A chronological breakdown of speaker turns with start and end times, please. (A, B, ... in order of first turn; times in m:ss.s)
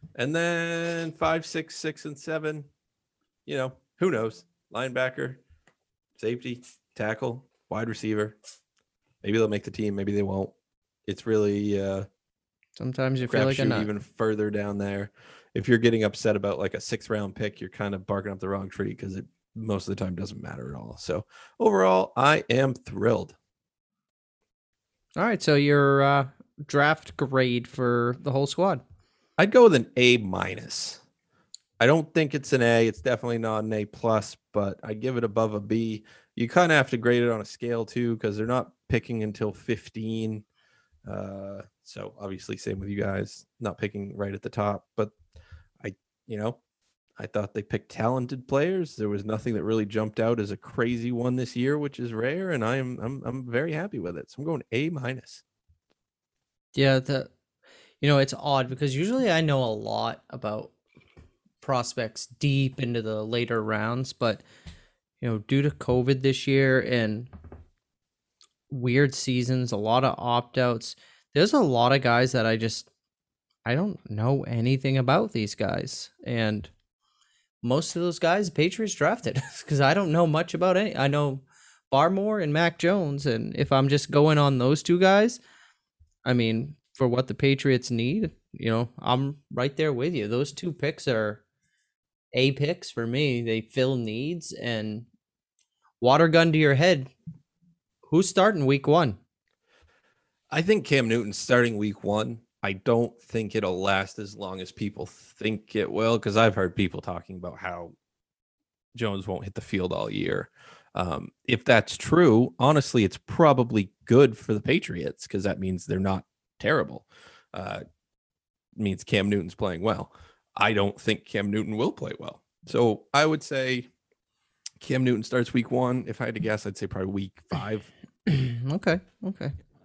0:00.2-0:02.7 A
0:03.5-0:05.4 A
0:06.2-0:08.4 A
0:09.2-0:10.5 A
0:11.1-0:12.1 A
0:12.8-0:13.9 B
0:13.3-0:23.4 A
0:25.2-0:28.8 B
0:29.4-0:31.0 A
0:31.8-0:40.4 A
0:41.0-0:45.2 A
0:45.8-0:46.6 A
0:47.2-0:55.4 A
0:56.8-0:57.3 B
0:58.0-1:00.7 B
1:01.6-1:04.4 B
1:05.2-1:07.3 B
1:08.7-1:12.9 B
1:13.6-1:16.7 B
1:17.6-1:25.4 B
1:26.2-1:31.4 B
1:32.3-1:35.1 B
1:36.0-1:37.1 B
1:38.1-1:39.2 B
1:40.5-1:48.0 A
1:49.0-1:57.8 A
1:58.8-2:03.9 A
2:04.8-2:07.9 A
2:08.3-2:09.6 B